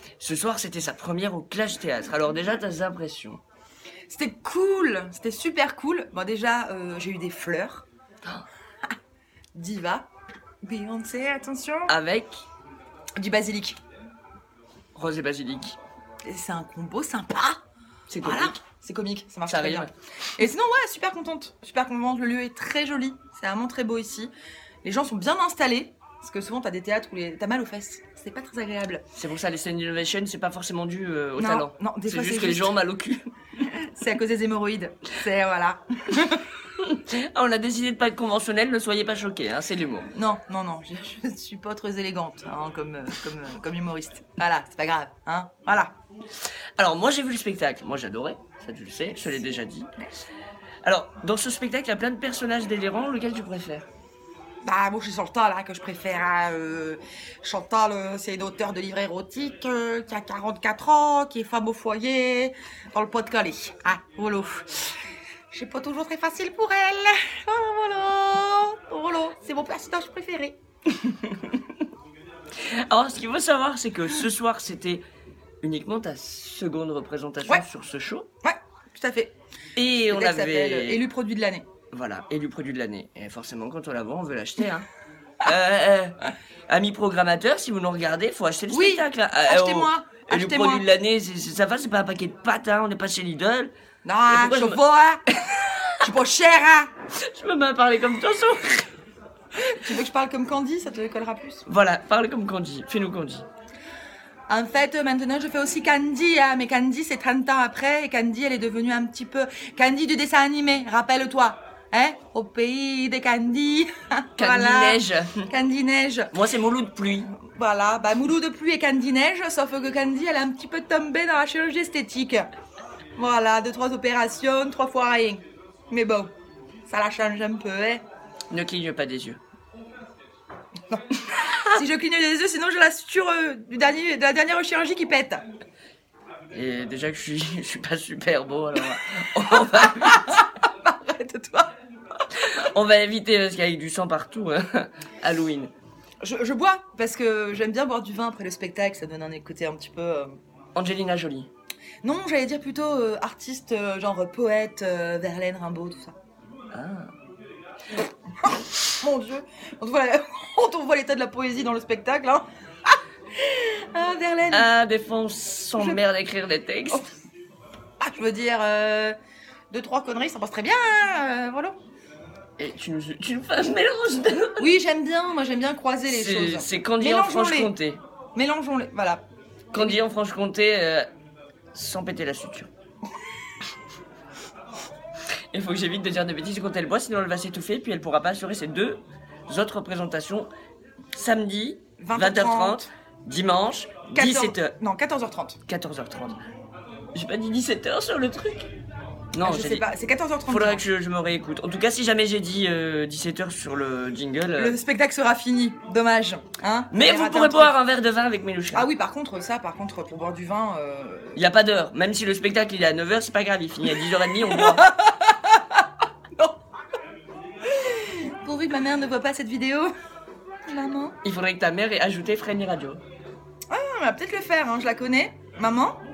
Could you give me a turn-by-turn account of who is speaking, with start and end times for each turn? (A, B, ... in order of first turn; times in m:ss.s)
0:00.2-0:03.4 A
0:04.1-0:07.8 B
0:09.6-0:10.1 B
0:10.6-0:11.9 B
0:11.9-0:12.4 A
0:13.2-0:13.8 B
0:15.0-0:15.8 A
0:16.3-0:17.6 B
0:18.1-0:18.6 A
0:18.2-0:24.3 B
0:19.5-0:19.9 A
0:24.8-0:29.0 B
0:29.2-0:33.3 A
0:31.4-0:32.8 B
0:33.8-0:36.5 B
0:36.8-0:40.1 A
0:40.1-0:45.9 B
0:46.8-0:49.9 A
0:50.8-0:53.9 A
0:54.6-1:04.9 B
1:05.5-1:10.6 B
1:12.6-1:15.0 A
1:15.6-1:18.3 A
1:18.4-1:19.3 B
1:19.8-1:21.0 A
1:20.1-1:21.6 B
1:21.9-1:24.9 A
1:25.4-1:26.2 A
1:26.7-1:33.7 A
1:28.7-1:30.9 B
1:34.0-1:35.2 B
1:34.3-1:34.8 A
1:35.5-1:36.0 A
1:36.0-1:36.9 B
1:37.2-1:38.9 A
1:39.7-1:41.6 B
1:41.7-1:43.5 A
1:44.5-1:56.3 B
1:54.4-1:55.5 A
1:56.3-1:57.3 A
1:57.4-2:02.5 B
2:03.2-2:06.3 B
2:06.9-2:08.0 B
2:08.5-2:09.4 A
2:11.7-2:15.4 B
2:16.5-2:20.4 A
2:19.6-2:21.7 B
2:22.4-2:25.7 A
2:26.2-2:30.4 B
2:30.8-2:31.5 A
2:32.0-2:36.2 B
2:36.7-2:37.1 A
2:38.6-2:44.7 B
2:44.5-2:47.1 A
2:48.0-2:49.2 B
2:49.7-2:51.8 B
2:52.6-2:54.7 A
2:54.6-2:57.7 B
2:56.1-2:58.0 A
2:58.4-2:59.2 B
2:59.7-3:01.1 A
2:59.8-3:00.0 B
3:01.7-3:02.7 A
3:05.5-3:10.5 A
3:11.2-3:14.7 A
3:12.0-3:12.8 B
3:14.2-3:15.6 B
3:15.7-3:16.4 A
3:17.2-3:18.7 A
3:19.3-3:19.8 A
3:19.4-3:20.8 B
3:20.5-3:24.8 A
3:24.6-3:27.8 B
3:26.9-3:28.9 A
3:28.7-3:31.4 B
3:31.4-3:34.8 A
3:34.3-3:35.6 B
3:37.8-3:39.9 B
3:40.7-3:41.2 B
3:41.2-3:43.0 A
3:43.7-3:46.0 B